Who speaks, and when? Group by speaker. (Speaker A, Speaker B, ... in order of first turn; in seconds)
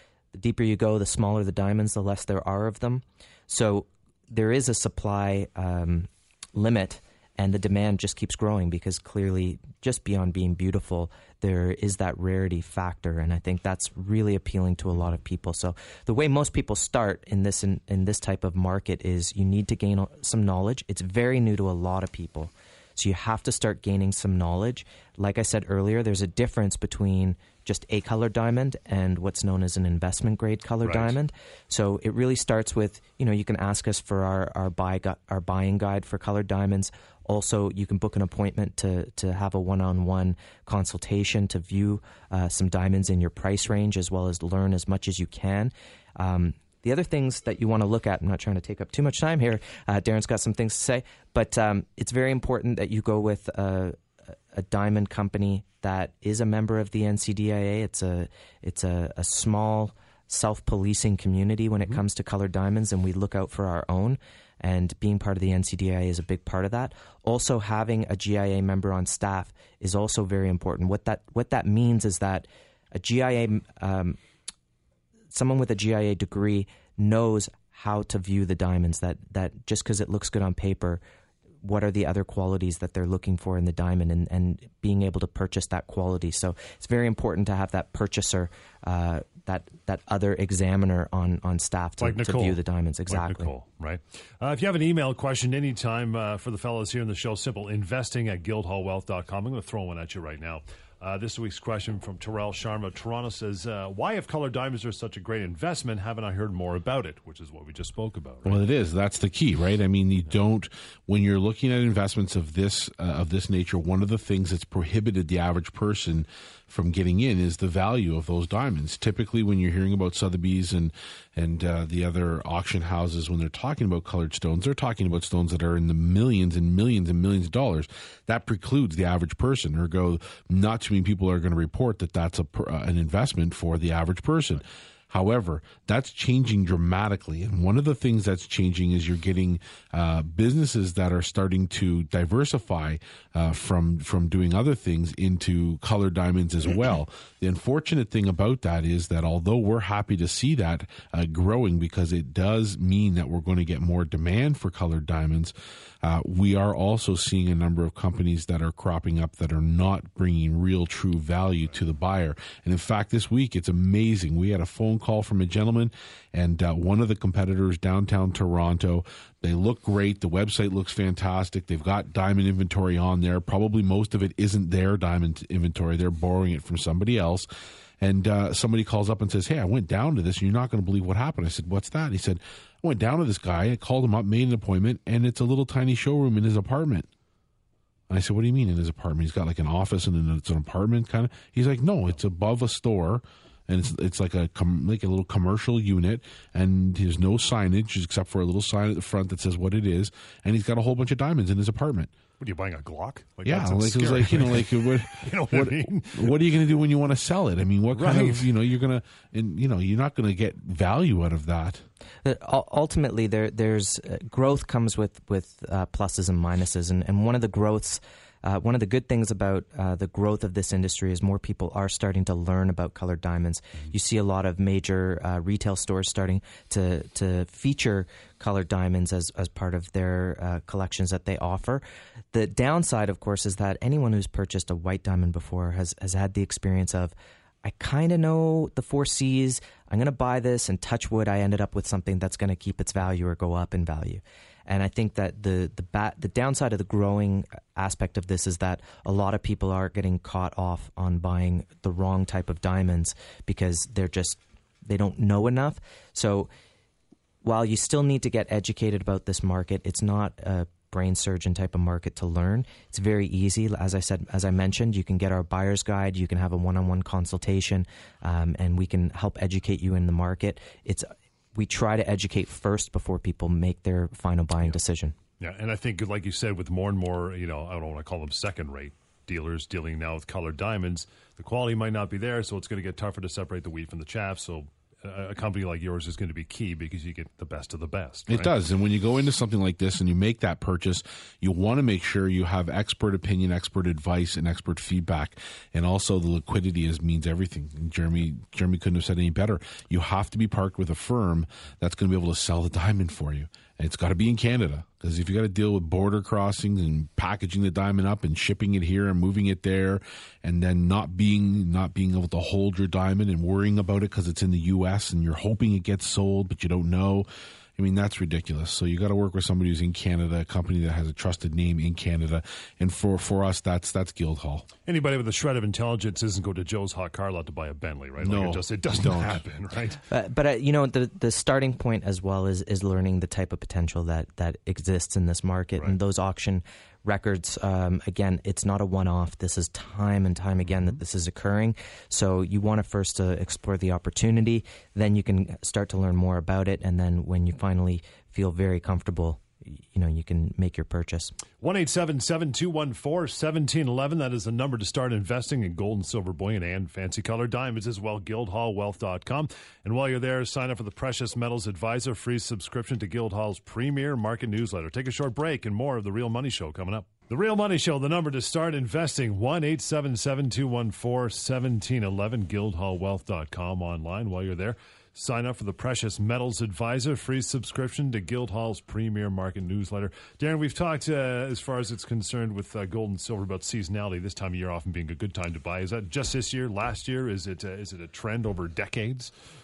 Speaker A: 0.3-54.0, 54.5-74.2, 75.3-81.0, 81.6-93.5, 212.2-256.5, 257.4-275.1, 330.1-351.4
Speaker B: 30.8-31.2, 92.0-108.6, 202.4-206.4, 207.9-208.5, 275.4-288.5, 324.9-330.0, 351.6-389.3
Speaker C: 108.5-177.5, 178.0-187.1, 188.1-202.1, 203.4-211.8, 288.3-324.7, 328.2-329.4